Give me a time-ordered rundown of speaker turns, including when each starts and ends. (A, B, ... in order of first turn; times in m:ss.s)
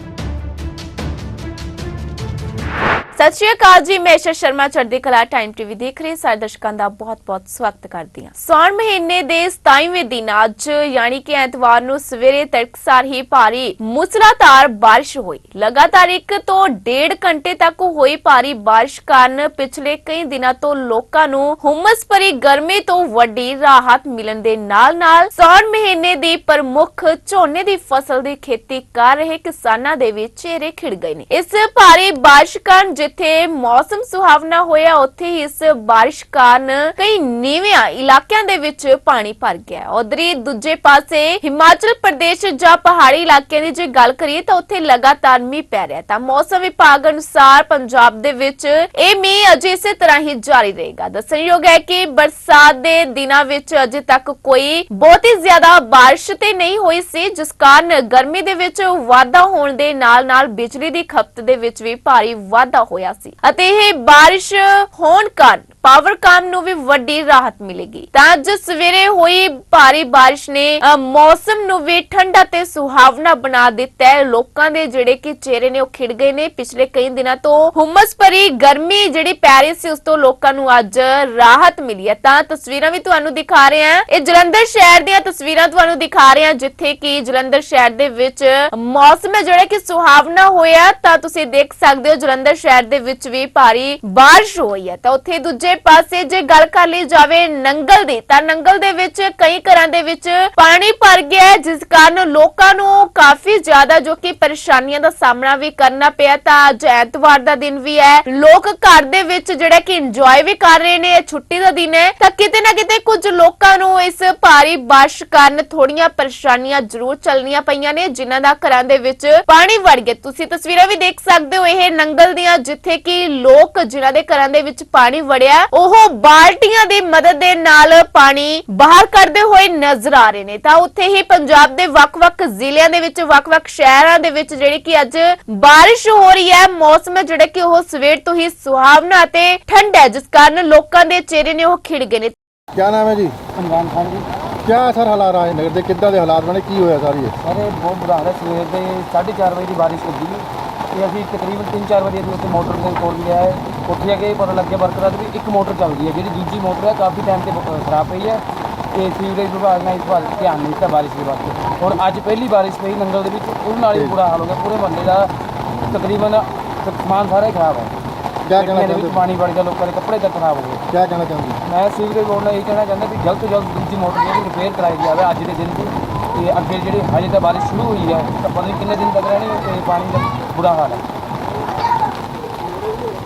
0:03.2-2:22.3 A
2:22.7-2:23.4 B
2:23.6-2:24.3 C
2:24.6-2:27.3 B
2:27.4-2:38.4 C
2:38.9-2:45.3 C
2:45.8-2:47.9 C
2:48.5-2:49.2 B
2:48.5-2:50.8 C
2:50.9-2:51.6 B
2:51.6-3:01.0 C